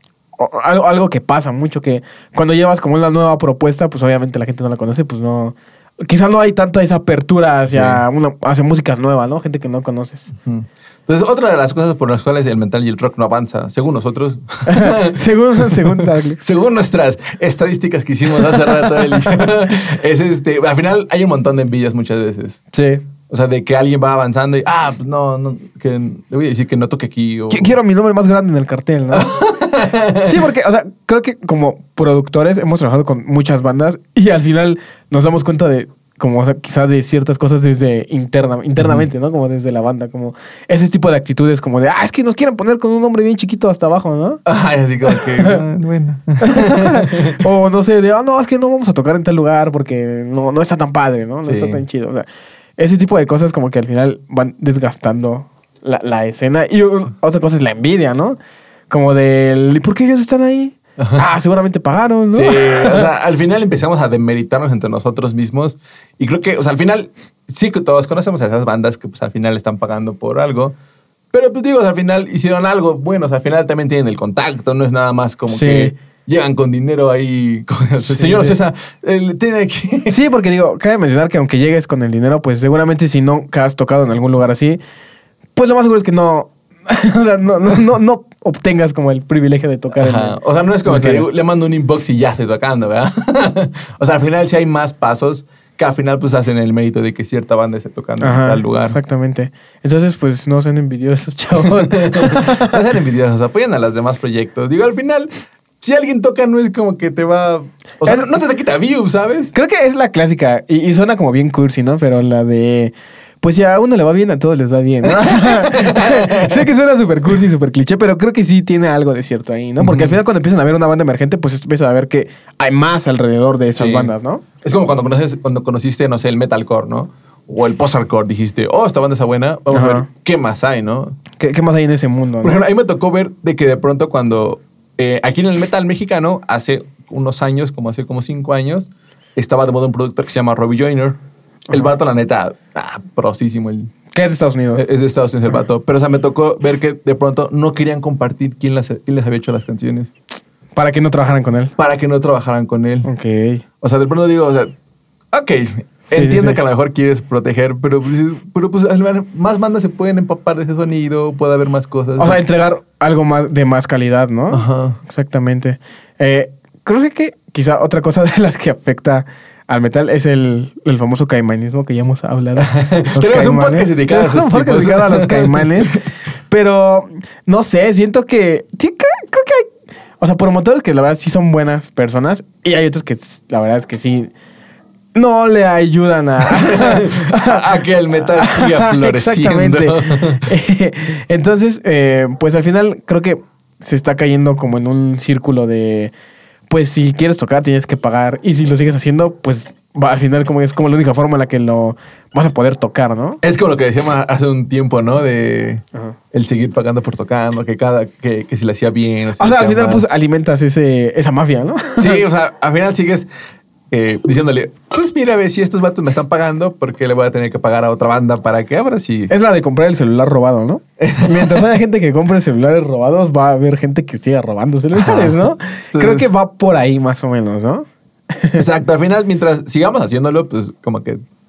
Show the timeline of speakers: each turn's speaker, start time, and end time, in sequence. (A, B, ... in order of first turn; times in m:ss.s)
0:00.4-0:10.3 A
0:07.7-0:08.0 B
0:10.4-0:22.6 B
0:14.7-0:16.4 A
0:22.7-0:23.0 A
0:23.3-0:27.7 B
0:27.5-0:29.3 A
0:29.1-0:30.4 B
0:30.2-0:44.4 A
0:38.8-0:39.0 B
0:44.5-0:47.4 B
0:45.1-0:45.6 A
0:46.4-0:52.3 A
0:51.4-0:51.8 B
0:52.8-0:58.4 A
0:58.9-1:03.1 A
1:01.0-1:01.2 B
1:02.3-1:10.8 B
1:11.3-1:20.2 B
1:15.5-1:15.9 A
1:18.1-1:18.6 A
1:20.1-1:24.8 A
1:25.6-1:31.3 A
1:30.0-1:39.0 B
1:38.2-1:42.8 A
1:41.6-1:49.5 B
1:48.0-1:48.3 A
1:49.5-2:04.4 A
1:55.0-1:56.7 B
1:59.8-2:00.2 B
2:03.8-2:11.2 B
2:09.7-2:10.1 A
2:11.4-2:12.6 A
2:12.4-2:21.2 B
2:21.7-2:23.9 B
2:24.1-2:24.9 A
2:24.8-2:30.1 B
2:30.8-2:31.7 A
2:31.8-2:33.1 B
2:33.0-2:33.6 A
2:33.8-2:34.7 B
2:35.3-2:42.4 B
2:36.1-2:36.6 A
2:42.2-3:04.3 A
2:44.5-2:45.0 B
2:52.6-2:56.0 B
3:05.2-3:16.1 A
3:06.5-3:10.5 B
3:16.7-3:23.4 A
3:23.4-3:30.0 B
3:29.4-3:32.2 A
3:32.0-3:33.3 B
3:33.9-3:39.3 B
3:39.3-3:48.6 A
3:41.0-3:41.6 B
3:45.0-3:45.4 B
3:45.9-3:46.3 B
3:48.6-3:51.2 B